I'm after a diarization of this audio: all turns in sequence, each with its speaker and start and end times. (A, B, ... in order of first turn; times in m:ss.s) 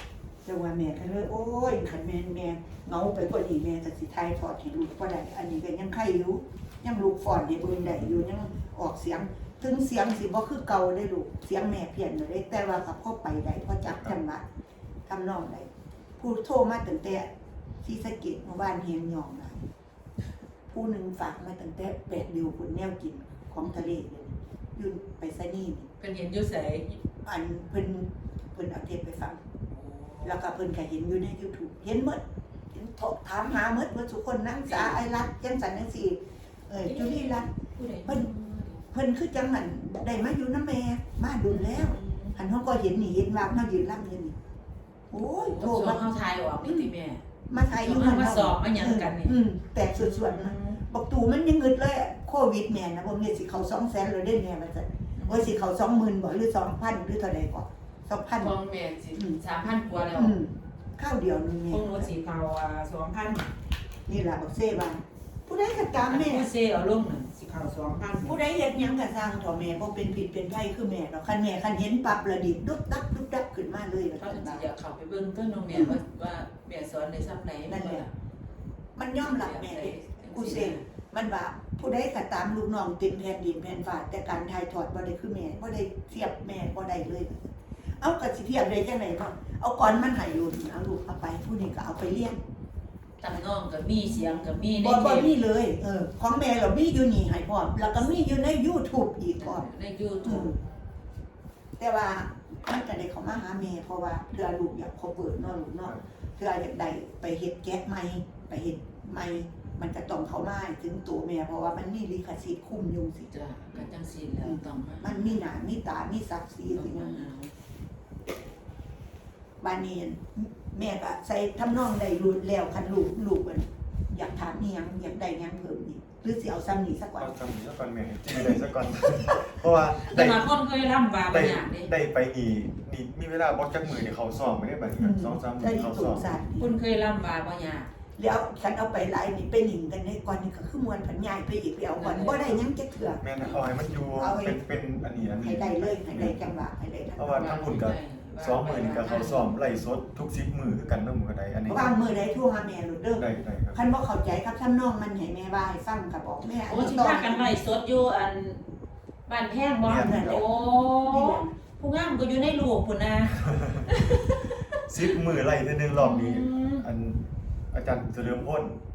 0:00.4-0:14.4 A
0:15.1-0:17.3 A
0:17.8-0:19.6 A
0:20.7-0:25.9 A
0:26.0-0:27.0 B
0:27.2-0:29.4 A
0:29.7-0:30.4 B
0:30.2-0:37.5 A
0:34.7-0:35.0 B
0:36.8-0:38.8 B
0:38.0-0:38.3 A
0:38.9-0:44.4 A
0:41.5-0:42.4 B
0:45.1-0:46.0 A
0:45.4-0:49.4 B
0:46.6-0:46.9 A
0:47.5-0:58.6 A
0:49.9-0:50.8 B
0:55.2-0:55.5 B
0:58.4-1:00.3 B
0:59.1-0:59.4 A
1:00.1-1:02.1 A
1:01.7-1:03.5 B
1:04.1-1:06.5 A
1:06.0-1:08.4 B
1:08.2-1:14.7 A
1:14.2-1:18.1 B
1:15.7-1:16.0 A
1:17.7-1:18.0 A
1:19.0-1:32.4 A
1:19.2-1:20.8 B
1:33.2-1:35.3 B
1:34.7-1:39.7 A
1:39.4-1:40.6 B
1:40.2-1:40.6 A
1:41.8-1:53.8 A
1:53.3-1:55.4 B
1:54.4-1:57.3 A
1:56.7-1:57.5 B
1:59.6-2:07.3 A
2:07.2-2:10.5 C
2:10.0-2:11.9 B
2:11.3-2:16.3 C
2:15.0-2:16.8 A
2:16.6-2:17.9 B
2:18.2-2:24.6 A
2:22.0-2:22.6 B
2:23.2-2:26.4 C
2:25.3-2:27.6 A
2:27.2-2:32.0 C
2:27.3-2:29.6 B
2:31.7-2:37.6 A
2:33.2-2:33.8 C
2:36.7-2:38.6 B
2:39.3-2:44.7 B
2:39.8-2:40.4 C
2:39.9-2:41.5 A
2:43.5-2:43.8 C
2:44.9-2:47.2 C
2:46.0-2:46.8 B
2:47.7-2:48.8 C